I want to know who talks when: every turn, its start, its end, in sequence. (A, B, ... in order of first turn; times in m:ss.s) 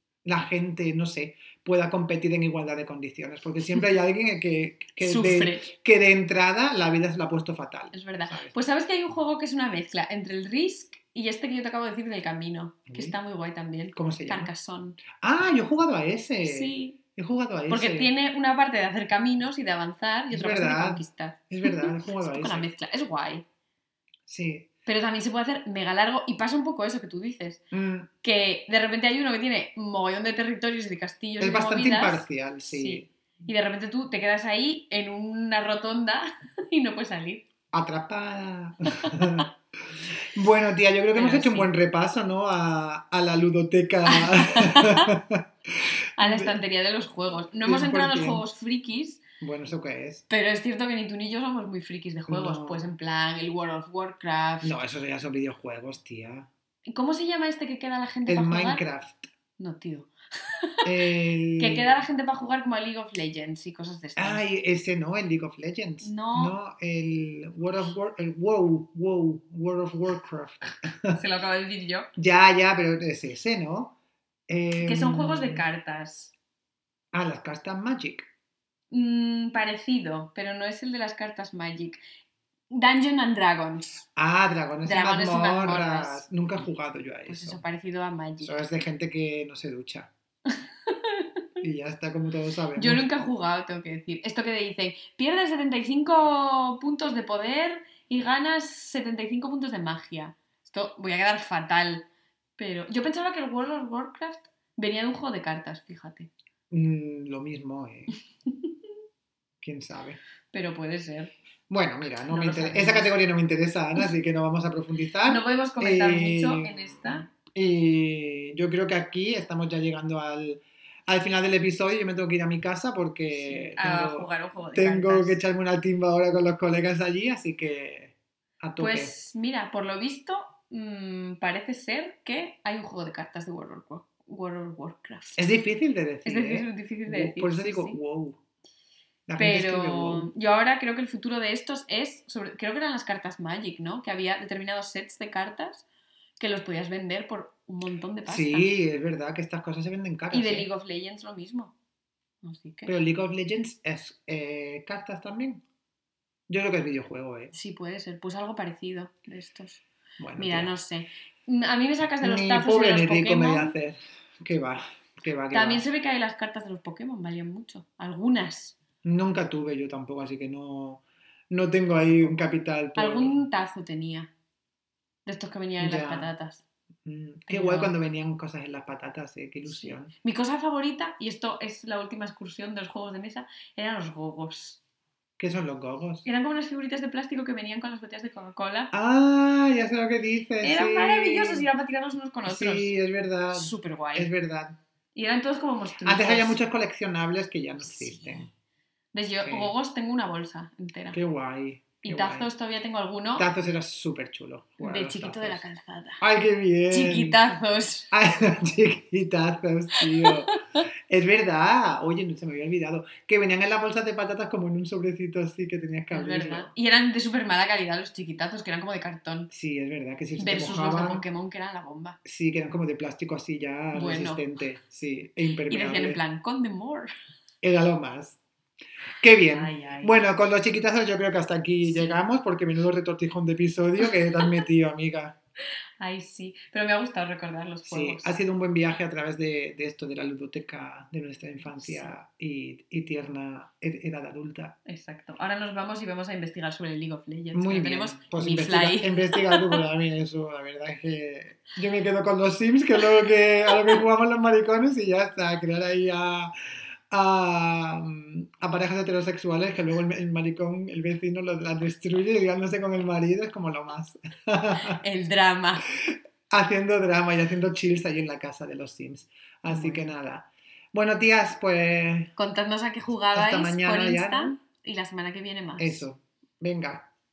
0:00.2-0:08.5 A
0:05.0-0:05.7 B
0:07.9-0:15.0 B
0:12.9-0:13.2 A
0:13.9-0:14.5 A
0:15.1-0:18.1 A
0:16.4-0:17.0 B
0:17.7-0:23.4 B
0:20.3-0:22.7 A
0:24.3-0:24.7 A
0:24.8-0:27.6 B
0:27.7-0:28.1 A
0:28.2-0:37.4 B
0:31.4-0:33.1 A
0:37.7-0:39.5 A
0:40.2-0:46.5 A
0:41.1-0:41.7 B
0:44.1-0:45.1 B
0:46.2-0:49.2 B
0:47.6-0:48.4 A
0:49.4-0:50.2 A
0:50.3-0:54.7 B
0:52.3-0:52.8 A
0:54.6-0:56.5 A
0:56.9-0:58.8 B
0:58.3-0:59.2 A
0:59.6-1:00.9 B
1:00.8-1:01.9 A
1:01.6-1:04.4 B
1:04.2-1:11.2 A
1:06.0-1:06.6 B
1:11.1-1:12.1 B
1:12.2-1:13.9 A
1:14.5-1:15.6 A
1:14.8-1:16.3 B
1:17.1-1:18.3 A
1:18.9-1:22.0 B
1:22.7-1:24.0 B
1:24.2-1:27.6 A
1:24.8-1:26.2 B
1:27.2-1:28.6 B
1:28.4-1:30.1 A
1:30.5-1:31.3 B
1:31.6-1:33.0 A
1:32.8-1:46.3 B
1:46.7-1:48.1 A
1:48.5-1:48.7 B
1:49.6-1:50.2 A
1:50.5-1:51.3 B
1:51.7-2:09.1 A
1:52.3-1:53.2 B
1:55.3-1:57.3 B
2:03.3-2:05.4 B
2:08.8-2:15.5 B
2:15.4-2:18.4 A
2:16.2-2:18.0 B
2:19.3-2:20.3 A
2:19.4-2:25.8 B
2:26.4-2:28.7 B
2:28.2-2:30.7 A
2:30.3-2:31.7 B
2:32.4-2:32.9 B
2:32.8-2:35.6 A
2:36.5-2:37.5 A
2:37.5-2:39.8 B
2:40.2-2:40.7 A
2:40.4-2:43.7 B
2:42.2-2:45.8 A
2:45.5-2:48.8 B
2:49.0-2:53.4 A
2:53.0-2:54.3 B
2:55.2-2:56.6 B
2:55.8-2:56.3 A
2:57.0-3:00.1 A
2:57.5-2:57.9 B
2:59.6-3:04.8 B
3:05.4-3:06.2 A
3:06.2-3:08.9 B
3:08.9-3:11.7 A
3:10.6-3:12.9 B
3:12.4-3:14.8 A
3:13.5-3:14.3 B
3:15.1-3:16.6 B
3:16.0-3:18.5 A
3:17.9-3:18.2 B
3:19.1-3:21.2 B
3:19.4-3:19.7 A
3:21.1-3:22.5 A
3:22.0-3:23.5 B
3:23.4-3:25.6 A
3:24.8-3:26.2 B
3:26.2-3:27.4 A
3:26.9-3:28.1 B
3:28.1-3:30.6 A
3:30.0-3:30.8 B
3:31.1-3:36.7 A
3:36.1-3:39.5 B
3:39.5-3:41.2 A
3:40.4-3:42.2 B
3:42.2-3:46.2 A
3:43.9-3:44.4 B
3:45.7-3:47.1 B
3:47.6-3:48.4 A
3:49.2-3:55.4 A
3:49.5-3:50.1 B
3:51.8-3:52.2 B
3:56.0-3:58.4 B
3:57.8-4:04.8 A
4:01.7-4:02.1 B
4:04.8-4:09.8 B
4:07.5-4:16.5 A
4:13.7-4:13.9 B
4:17.1-4:25.0 A
4:24.8-4:25.9 B
4:26.5-4:32.3 A
4:29.7-4:30.1 B
4:32.4-4:36.0 B
4:33.3-4:34.5 A
4:35.8-4:37.1 A